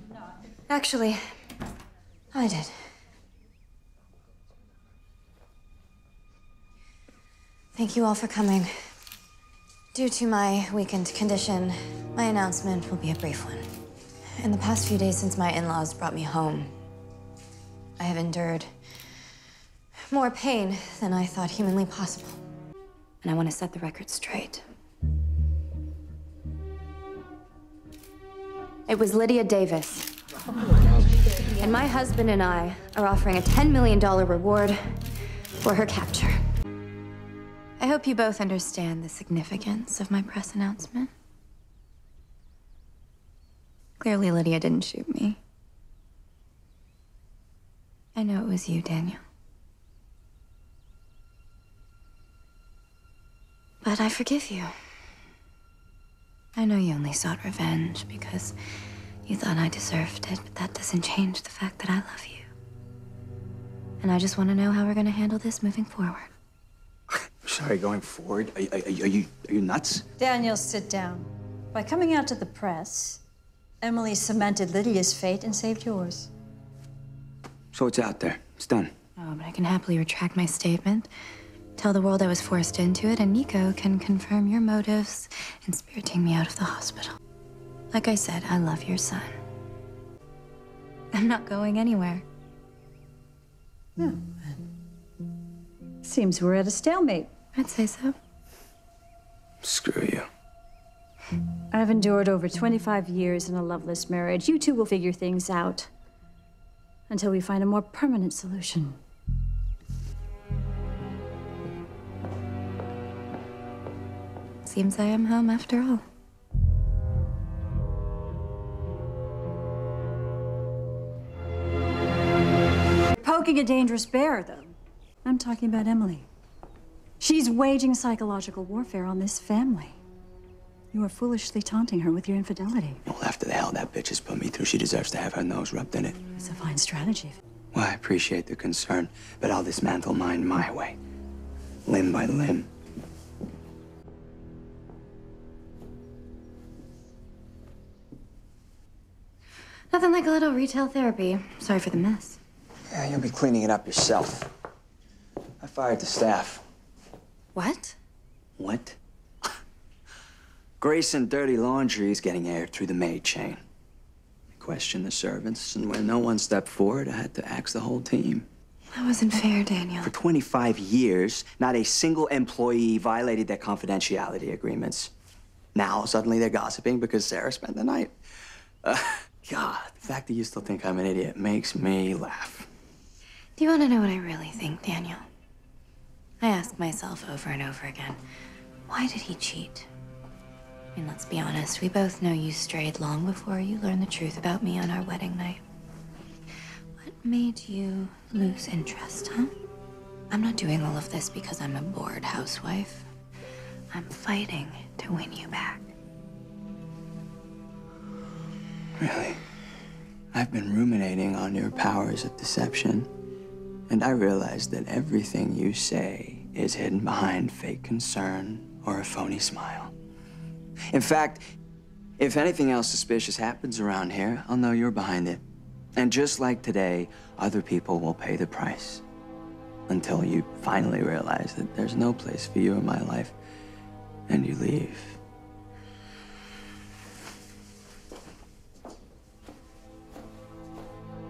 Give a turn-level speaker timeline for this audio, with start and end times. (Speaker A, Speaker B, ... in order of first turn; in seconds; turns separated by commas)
Speaker A: 0.7-1.2, Speaker A: 2.3-2.8, Speaker A: 7.8-8.9, Speaker A: 9.9-13.7, Speaker A: 14.4-16.7, Speaker A: 18.0-18.7, Speaker A: 20.1-22.4, Speaker A: 23.2-24.6, Speaker A: 28.9-30.1, Speaker A: 31.6-34.8, Speaker A: 35.6-36.4, Speaker A: 37.8-41.1, Speaker A: 44.0-45.4, Speaker A: 48.2-49.2, Speaker A: 53.8-54.7, Speaker A: 56.6-58.6, Speaker A: 59.3-62.5, Speaker A: 64.0-66.3, Speaker B: 67.4-70.0, Speaker C: 70.2-73.2, Speaker C: 73.8-76.3, Speaker B: 77.7-78.9, Speaker A: 79.2-81.1, Speaker A: 81.8-87.2, Speaker A: 87.9-89.4, Speaker A: 91.1-92.2, Speaker C: 94.0-94.5, Speaker C: 96.0-97.3, Speaker A: 97.6-98.2, Speaker B: 99.6-100.3, Speaker C: 101.7-105.9, Speaker C: 107.1-109.0, Speaker A: 114.6-116.0, Speaker C: 123.2-126.3, Speaker C: 127.2-130.0, Speaker C: 130.9-133.0, Speaker B: 133.1-136.2, Speaker C: 136.4-137.4, Speaker B: 137.7-141.0, Speaker B: 141.9-142.7, Speaker A: 149.9-152.4, Speaker B: 152.9-154.5, Speaker B: 155.6-156.7, Speaker A: 157.6-158.0, Speaker B: 158.6-159.0, Speaker B: 160.8-163.6, Speaker B: 164.5-168.5, Speaker A: 168.9-170.1, Speaker B: 170.0-175.1, Speaker B: 175.8-178.1, Speaker B: 178.8-182.7, Speaker A: 183.6-185.3, Speaker A: 186.4-188.2, Speaker A: 188.9-189.9, Speaker A: 191.0-195.6, Speaker A: 197.0-199.5, Speaker A: 200.3-203.1, Speaker A: 203.9-205.9, Speaker B: 209.0-209.4, Speaker B: 210.3-213.1, Speaker B: 213.9-219.9, Speaker B: 220.9-221.4, Speaker B: 222.2-225.4, Speaker B: 226.0-229.0, Speaker B: 229.9-233.3, Speaker B: 234.3-235.2